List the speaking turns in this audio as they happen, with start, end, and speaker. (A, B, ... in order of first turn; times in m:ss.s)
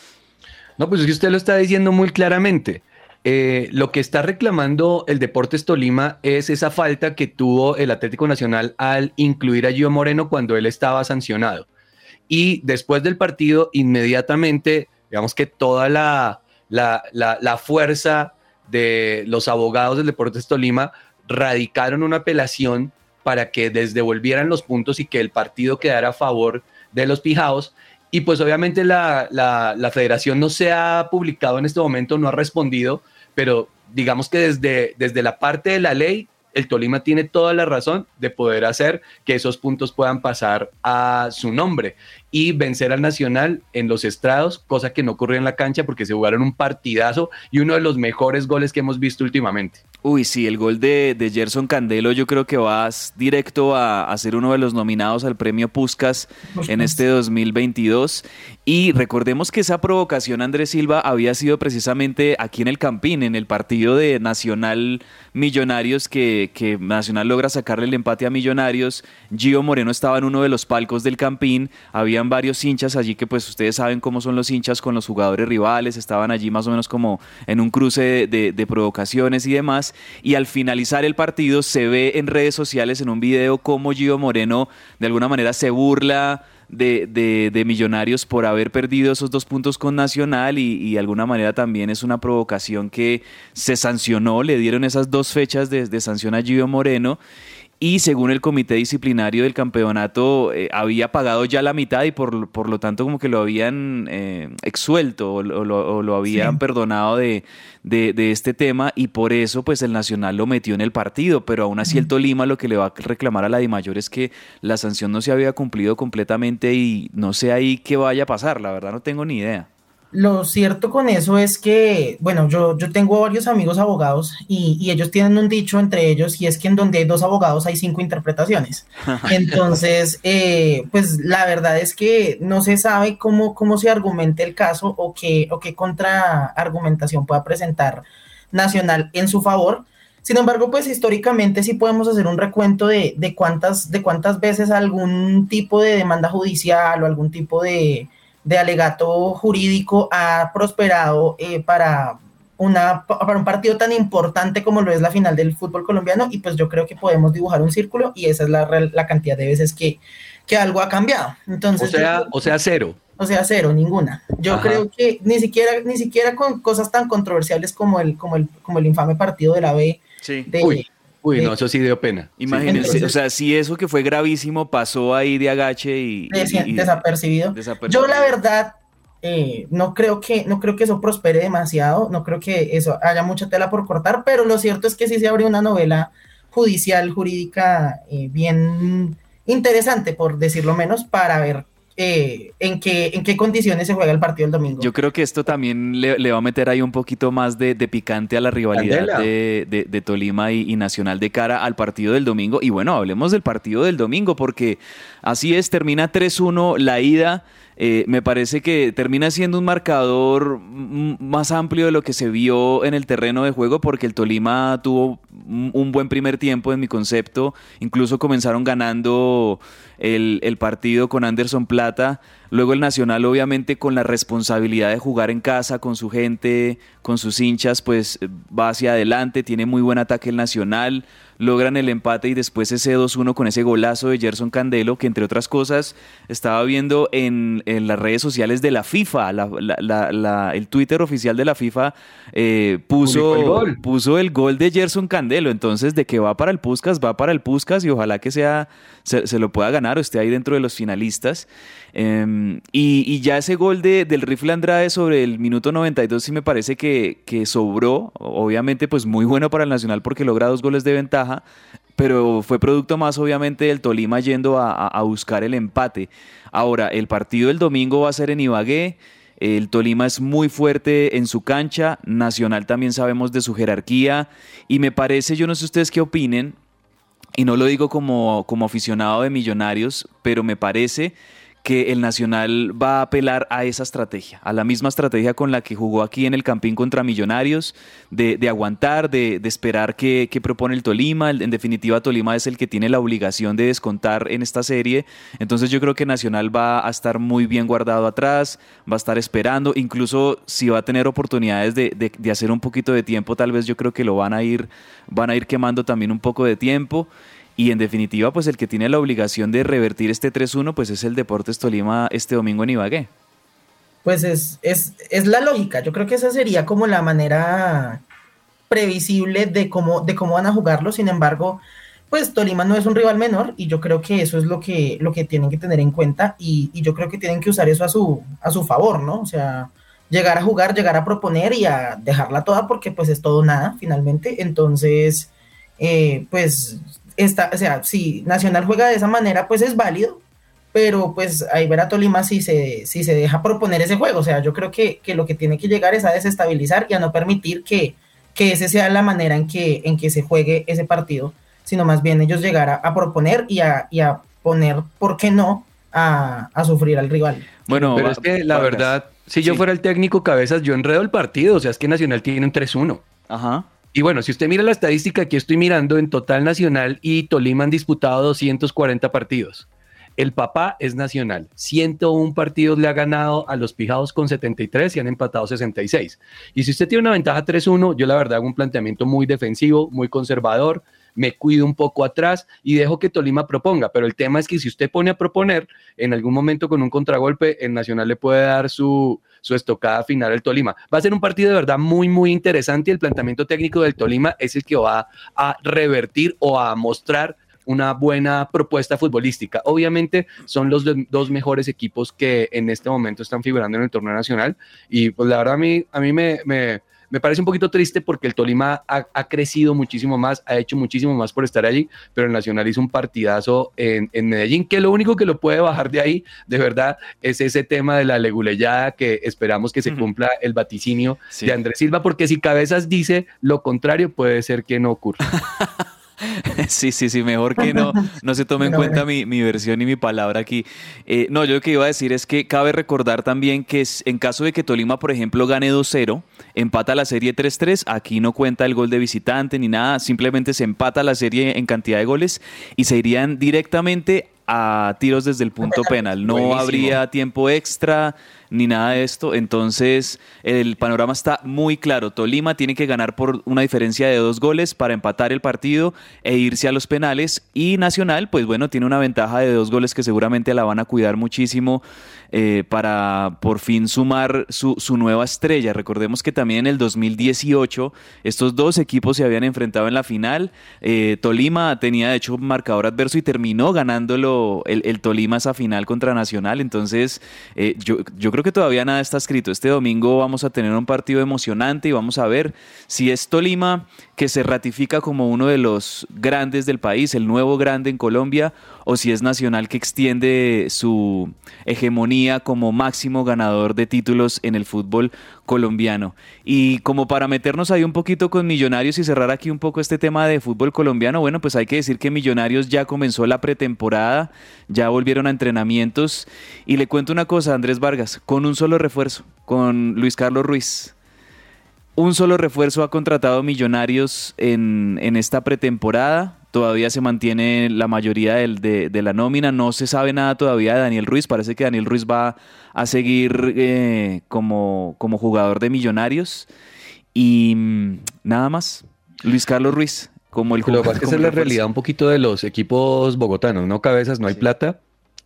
0:00.8-0:11.7 A
0:12.3-0:49.8 A
0:50.0-1:37.2 B
0:56.5-0:57.0 C
1:37.8-1:59.7 B
1:46.3-1:46.6 C
2:00.1-2:42.5 C
2:09.0-2:09.5 B
2:41.8-2:43.0 A
2:43.2-2:50.8 C
2:44.5-2:44.8 A
2:50.2-2:50.5 B
2:50.6-2:53.1 A
2:52.4-2:57.0 B
2:52.7-2:53.1 C
2:56.3-3:14.9 C
2:57.5-2:58.4 B
3:14.8-4:21.4 B
3:18.7-3:19.3 A
4:03.0-4:03.8 A
4:22.0-4:36.6 B
4:37.4-5:13.1 B
5:14.0-5:18.0 C
5:18.7-5:40.2 C
5:40.7-5:57.5 C
5:57.7-5:59.6 B
5:57.7-6:03.0 A
6:03.3-6:03.7 B
6:03.9-6:09.6 A
6:10.2-7:05.2 A
7:06.2-7:41.8 B
7:07.6-7:08.0 C
7:08.6-7:09.0 C
7:25.6-7:25.9 C
7:26.2-7:27.0 A
7:42.3-8:30.9 B
8:32.0-8:46.5 B
8:47.1-8:51.6 B
8:50.6-8:54.8 A